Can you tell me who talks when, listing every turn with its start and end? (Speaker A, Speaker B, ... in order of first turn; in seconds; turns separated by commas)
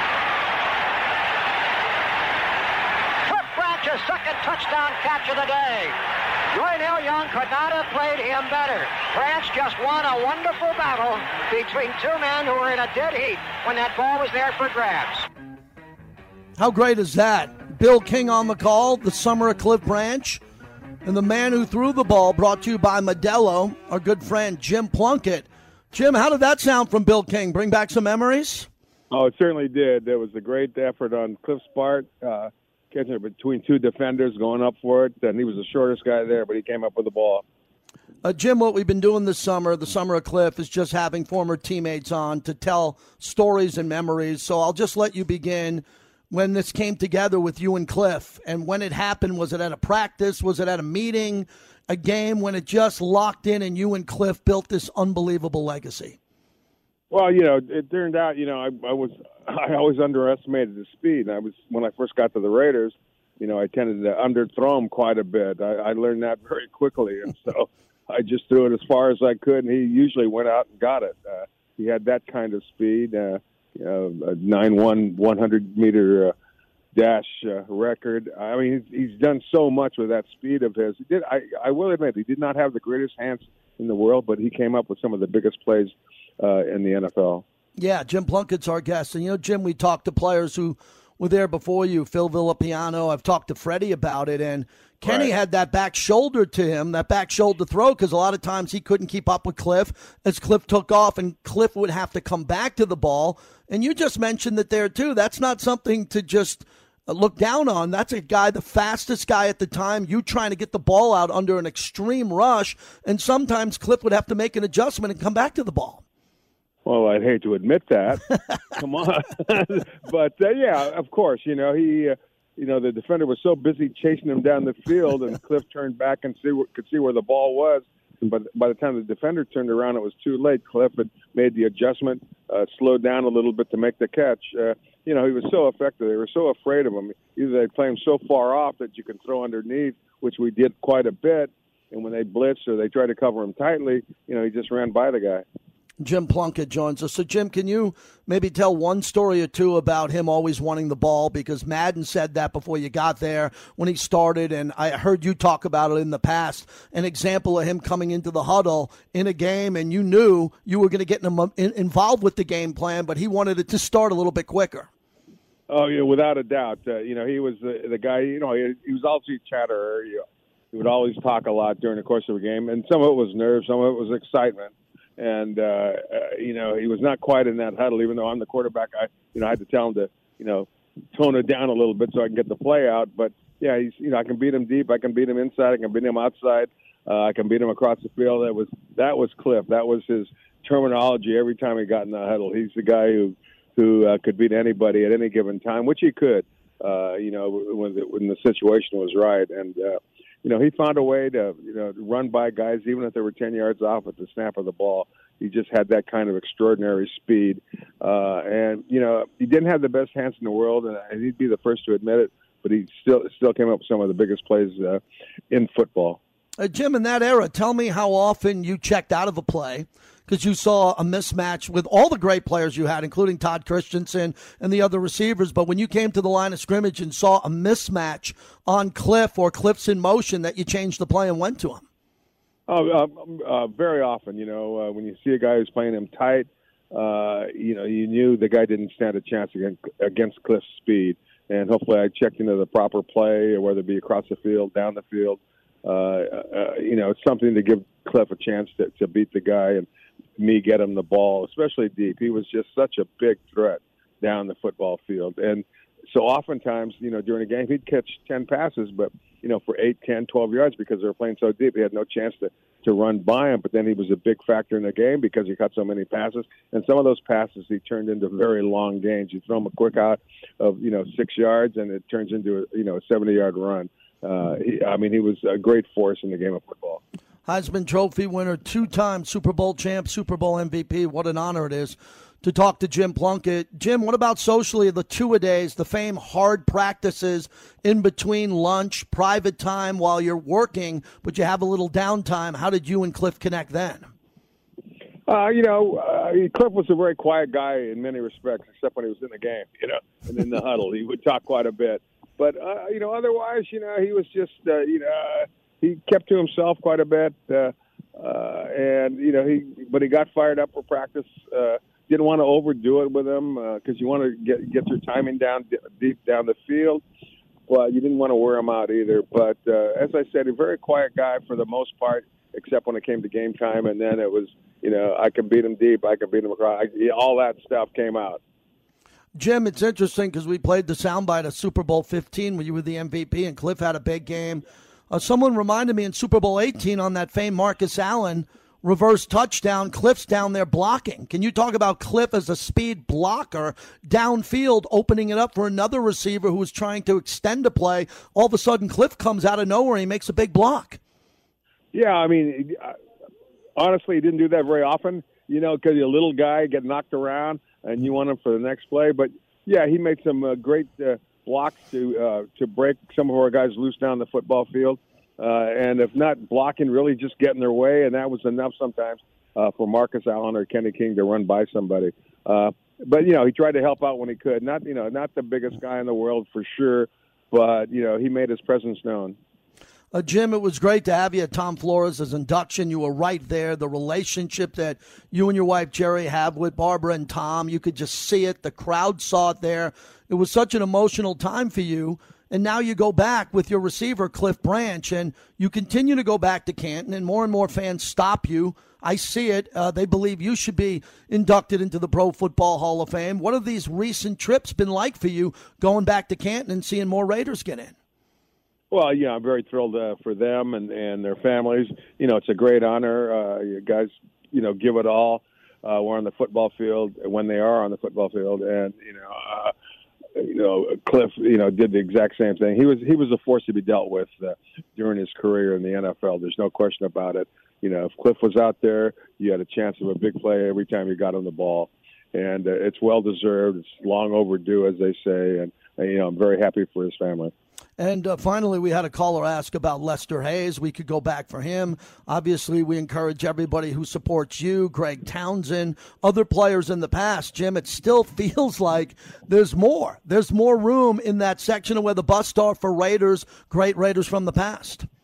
Speaker A: 3.3-6.0, Speaker A: 6.5-15.3, Speaker B: 16.6-20.4, Speaker B: 21.0-28.7, Speaker C: 29.1-37.4, Speaker B: 38.2-56.2, Speaker C: 57.1-76.3, Speaker C: 76.9-87.4, Speaker B: 87.8-116.0, Speaker C: 95.0-95.3, Speaker C: 116.8-145.4, Speaker B: 146.0-164.9, Speaker C: 165.7-216.2, Speaker B: 216.6-231.8, Speaker C: 232.7-249.9, Speaker C: 250.4-277.0, Speaker B: 277.5-294.1, Speaker C: 295.3-317.0, Speaker C: 317.7-328.4, Speaker B: 329.4-351.0, Speaker C: 351.9-353.0, Speaker C: 353.8-379.4, Speaker B: 380.1-407.9, Speaker C: 408.9-419.7, Speaker C: 420.4-437.5, Speaker B: 438.0-455.1